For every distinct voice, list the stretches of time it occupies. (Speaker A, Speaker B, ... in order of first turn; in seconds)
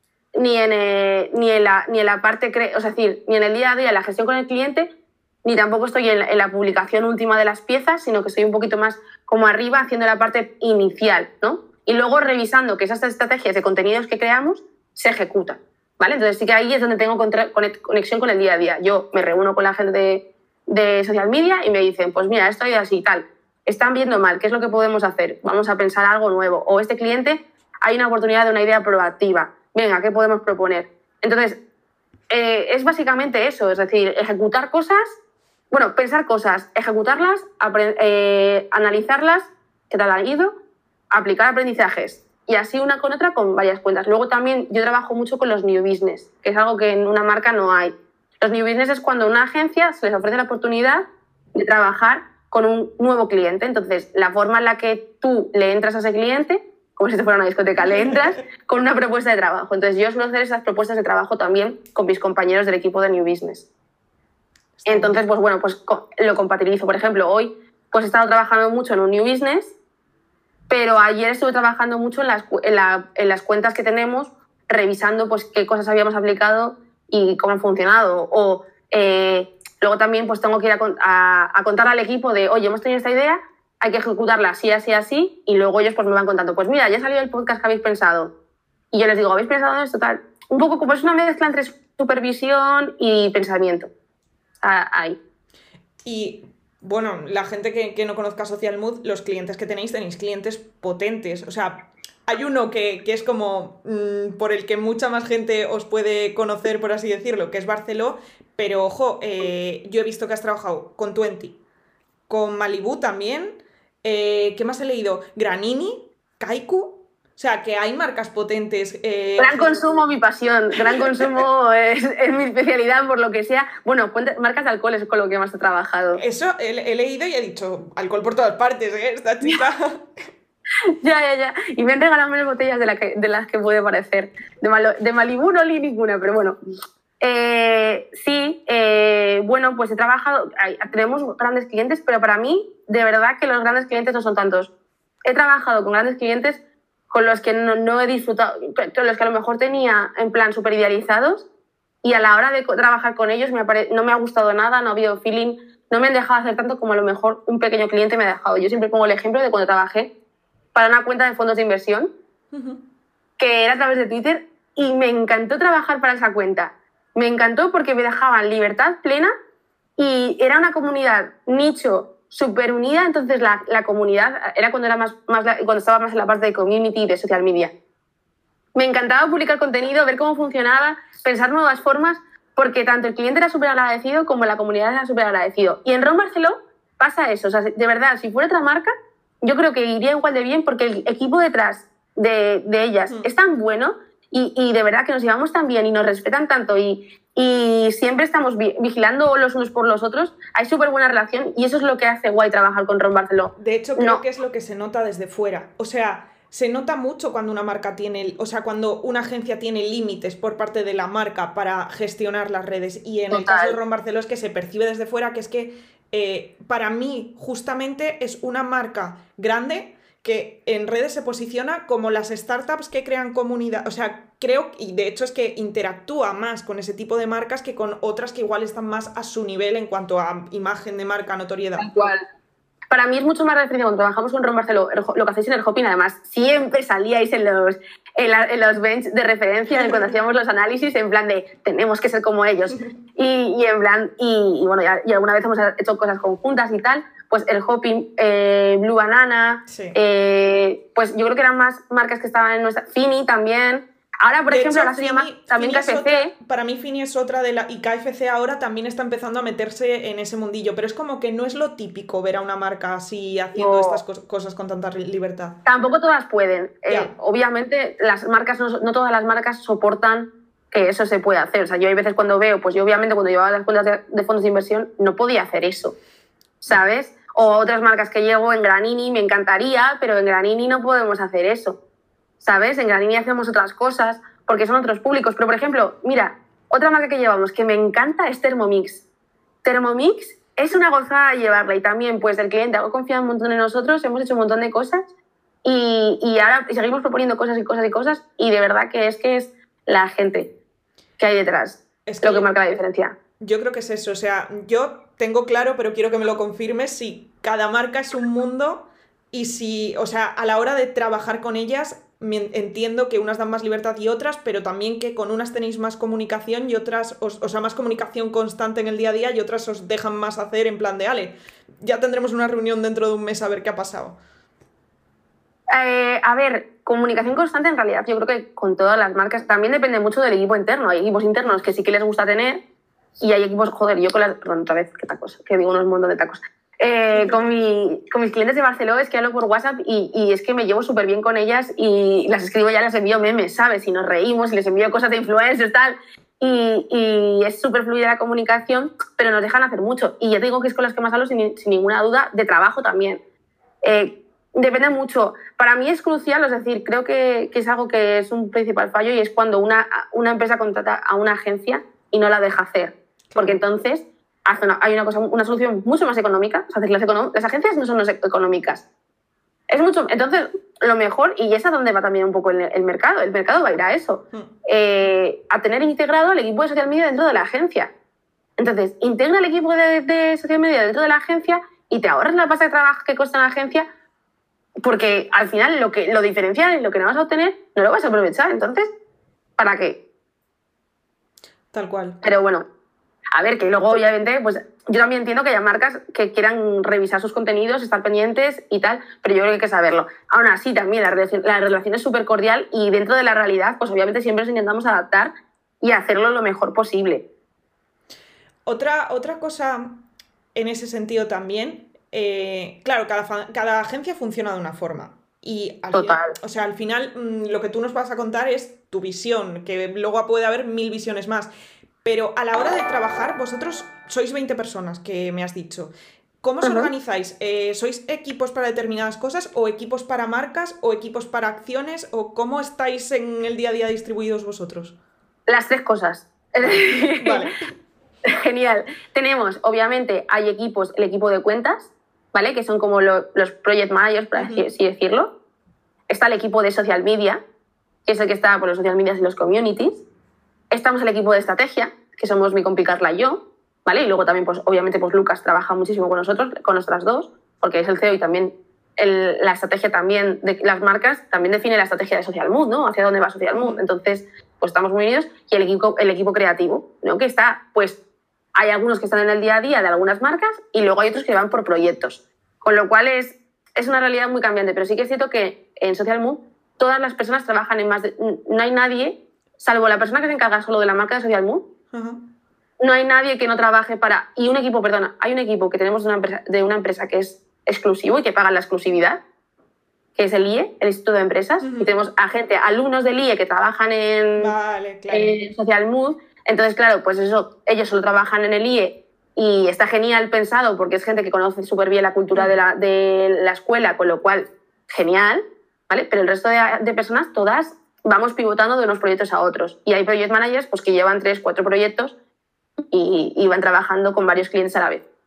Speaker A: 0.3-4.9, 5.4-31.6, 32.3-35.2, 35.7-40.6, 41.1-51.0, 51.5-63.6, 64.8-69.7, 70.7-88.3, 88.9-93.9, 94.6-95.2, 119.4-126.2, 131.0-136.6, 137.2-144.7, 145.2-146.6, 147.1-151.5, 152.0-160.1, 160.7-162.1, 163.4-169.3, 170.0-177.7, 178.7-204.2, 213.3-213.8, 231.8-232.2, 232.9-256.3, 263.6-264.0, 265.6-275.9, 276.6-281.8, 282.4-289.0, 289.6-295.1, 295.6-300.5, 301.2-303.1, 325.7-332.6, 333.2-353.2, 353.8-368.8, 369.7-377.9, 378.6-383.8, 384.8-388.9, 389.6-390.0, 392.2-392.6, 393.3-405.3, 405.8-407.2, 415.9-416.3, 426.6-426.9, 435.5-437.5, 438.3-445.3, 446.1-447.4, 448.1-450.0, 450.7-468.0, 468.6-481.6, 482.8-489.2, 490.1-494.5, 495.1-512.1, 512.9-515.0
Speaker B: 57.8-58.3, 64.8-65.2, 96.0-111.6, 112.3-119.8, 120.8-121.4, 126.1-130.2, 162.5-162.8, 203.6-231.9, 239.7-240.1, 249.7-250.0, 254.5-265.6, 302.1-302.5, 303.4-324.2, 337.1-337.4, 363.3-363.6, 391.7-392.2, 408.6-421.5, 422.0-434.9, 436.6-437.6, 444.4-444.6, 463.5-463.8, 481.9-482.2, 491.6-491.9, 494.4-495.4